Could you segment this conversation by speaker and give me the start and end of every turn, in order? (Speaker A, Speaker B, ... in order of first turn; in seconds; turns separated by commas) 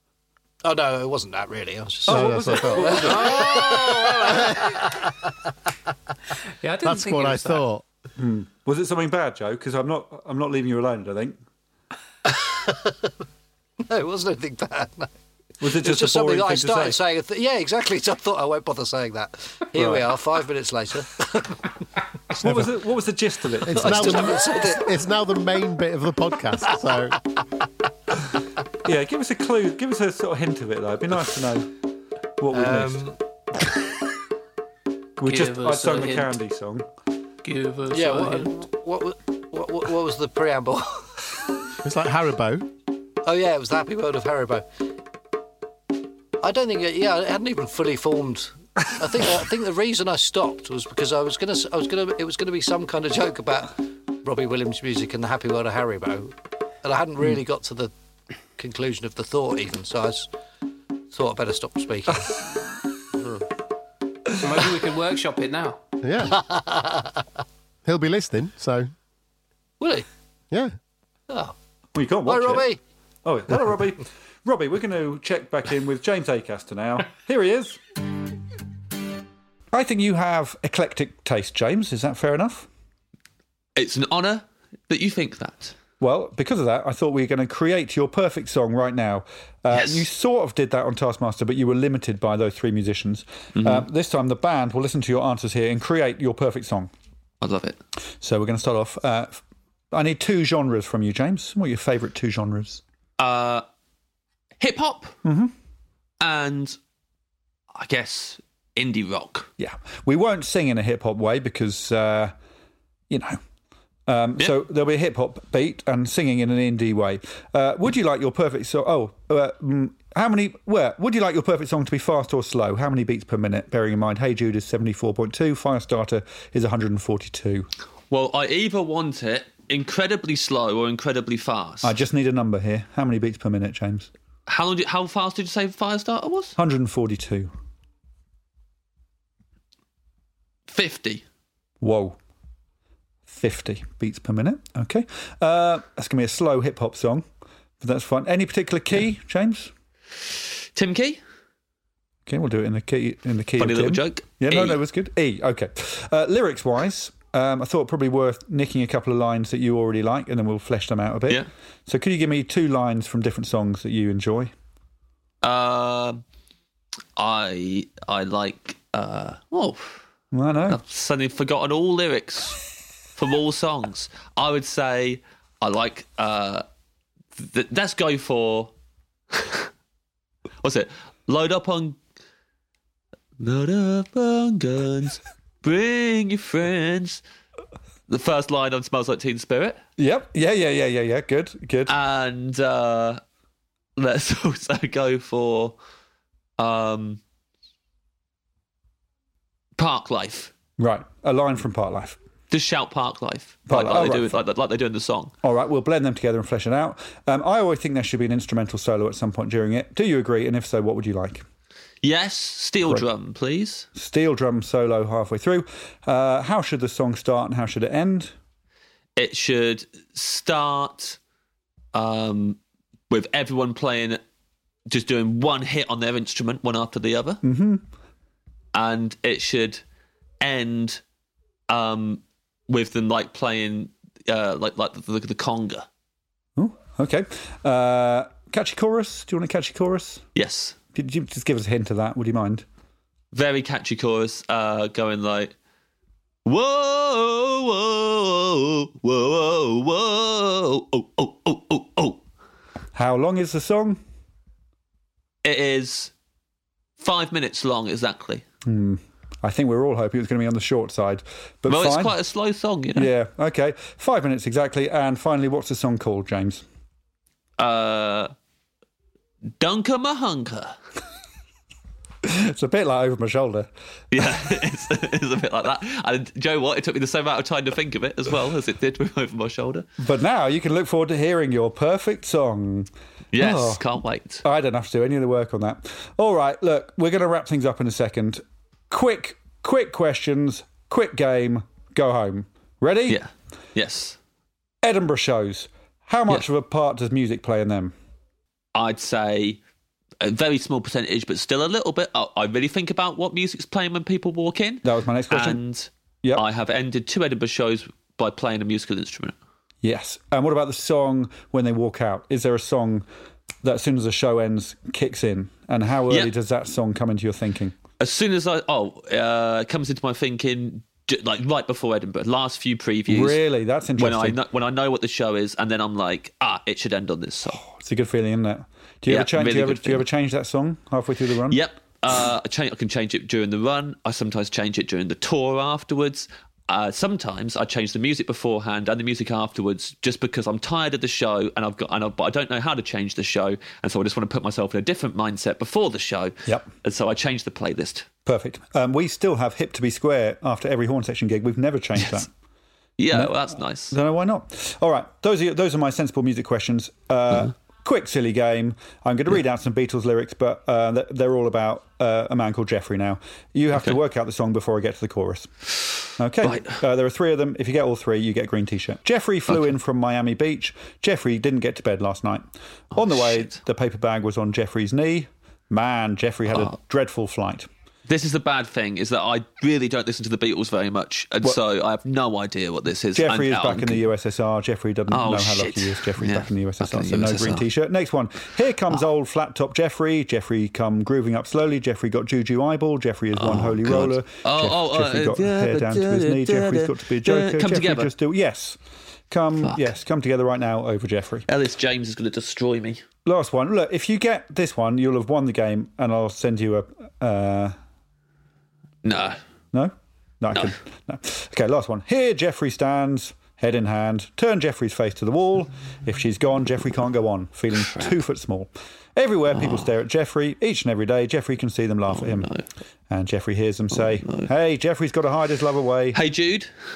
Speaker A: 0.6-5.1, Speaker B: 2.1-3.9, Speaker C: 2.1-3.4, Speaker D: 6.6-7.7, Speaker C: 6.8-7.8, Speaker B: 8.2-11.4, Speaker A: 12.3-13.1, Speaker A: 13.8-15.1, Speaker B: 15.6-17.0, Speaker A: 15.6-21.7, Speaker B: 19.8-20.1, Speaker B: 22.4-24.4, Speaker C: 23.7-27.2, Speaker A: 23.7-25.1, Speaker B: 28.8-31.7, Speaker B: 32.4-33.1, Speaker A: 32.5-33.2, Speaker B: 35.2-36.9, Speaker D: 35.2-36.3, Speaker D: 37.4-38.5, Speaker A: 37.9-41.1, Speaker C: 41.8-42.7, Speaker A: 43.2-44.6, Speaker A: 46.4-53.7, Speaker A: 54.2-57.9, Speaker A: 58.6-60.3, Speaker A: 61.1-62.3, Speaker D: 64.4-65.8, Speaker C: 66.0-66.4, Speaker A: 66.4-67.1, Speaker C: 67.8-68.9, Speaker A: 69.8-70.1, Speaker B: 71.9-72.7, Speaker A: 72.3-72.8, Speaker B: 73.2-77.8, Speaker B: 79.7-82.7, Speaker E: 83.8-85.8, Speaker B: 86.0-96.9, Speaker E: 89.7-90.0, Speaker E: 93.6-93.9, Speaker E: 97.4-97.8, Speaker B: 98.2-102.8, Speaker E: 103.2-103.7, Speaker E: 104.6-105.2, Speaker B: 105.2-105.5, Speaker E: 106.2-106.8, Speaker E: 107.7-109.5, Speaker B: 109.6-112.3, Speaker B: 113.1-113.4, Speaker B: 114.1-127.7, Speaker E: 128.1-131.9, Speaker B: 131.8-134.1, Speaker E: 134.5-136.6, Speaker B: 136.6-137.5, Speaker E: 140.7-141.2, Speaker B: 141.8-142.2, Speaker B: 143.3-147.3, Speaker B: 147.8-149.7, Speaker E: 150.8-151.2, Speaker B: 152.3-164.5, Speaker E: 153.6-154.8, Speaker E: 165.4-166.2, Speaker E: 167.2-170.0, Speaker B: 170.3-170.8, Speaker E: 170.7-172.6, Speaker E: 173.2-176.7, Speaker E: 177.3-178.7, Speaker E: 179.3-179.7, Speaker E: 180.6-182.0, Speaker E: 183.4-187.2, Speaker E: 188.1-189.8, Speaker B: 190.0-191.9, Speaker E: 191.9-193.2, Speaker E: 194.0-195.8, Speaker E: 196.6-197.2, Speaker E: 199.8-200.5, Speaker B: 200.8-202.2, Speaker E: 202.5-205.3, Speaker B: 203.7-204.4, Speaker B: 205.4-211.4, Speaker E: 212.0-213.9, Speaker B: 213.9-218.3, Speaker E: 219.2-221.2, Speaker E: 221.9-222.6, Speaker E: 223.1-224.2, Speaker E: 224.9-227.4, Speaker B: 227.4-227.9, Speaker E: 228.7-229.8, Speaker E: 230.4-231.0, Speaker E: 231.7-235.9, Speaker B: 236.6-240.2, Speaker E: 240.3-240.8, Speaker B: 240.9-242.7, Speaker E: 243.3-245.6, Speaker E: 246.4-252.2, Speaker B: 252.9-254.0, Speaker E: 255.4-256.1, Speaker E: 257.0-258.4, Speaker B: 258.6-262.2, Speaker E: 261.7-263.1, Speaker B: 262.9-266.6, Speaker E: 267.6-268.3, Speaker E: 269.6-270.8, Speaker B: 272.2-274.6, Speaker E: 274.1-279.9, Speaker B: 280.0-283.9, Speaker E: 283.3-284.4, Speaker B: 284.4-293.2, Speaker E: 293.1-294.2, Speaker B: 294.8-297.9, Speaker E: 298.8-299.6, Speaker E: 300.2-309.4, Speaker B: 304.8-305.6, Speaker B: 309.8-313.1, Speaker B: 313.6-317.8, Speaker E: 318.0-323.4, Speaker B: 323.1-324.4, Speaker E: 323.9-327.6, Speaker B: 327.4-331.6, Speaker E: 329.1-330.1, Speaker E: 331.5-348.1, Speaker B: 346.5-346.7, Speaker B: 348.2-352.3, Speaker E: 353.0-353.9, Speaker B: 353.1-365.5, Speaker B: 366.2-377.7, Speaker E: 366.4-366.8, Speaker E: 373.0-373.6, Speaker E: 378.1-384.1, Speaker B: 383.1-398.8, Speaker E: 385.1-387.7, Speaker E: 393.4-398.1, Speaker B: 399.3-401.5, Speaker E: 399.6-399.9, Speaker E: 401.5-403.0, Speaker B: 403.2-407.8, Speaker E: 409.0-409.4, Speaker B: 409.7-422.5, Speaker E: 417.8-418.2, Speaker E: 419.5-419.9, Speaker E: 422.1-422.6, Speaker B: 423.1-426.2, Speaker E: 423.9-424.5, Speaker E: 426.1-426.7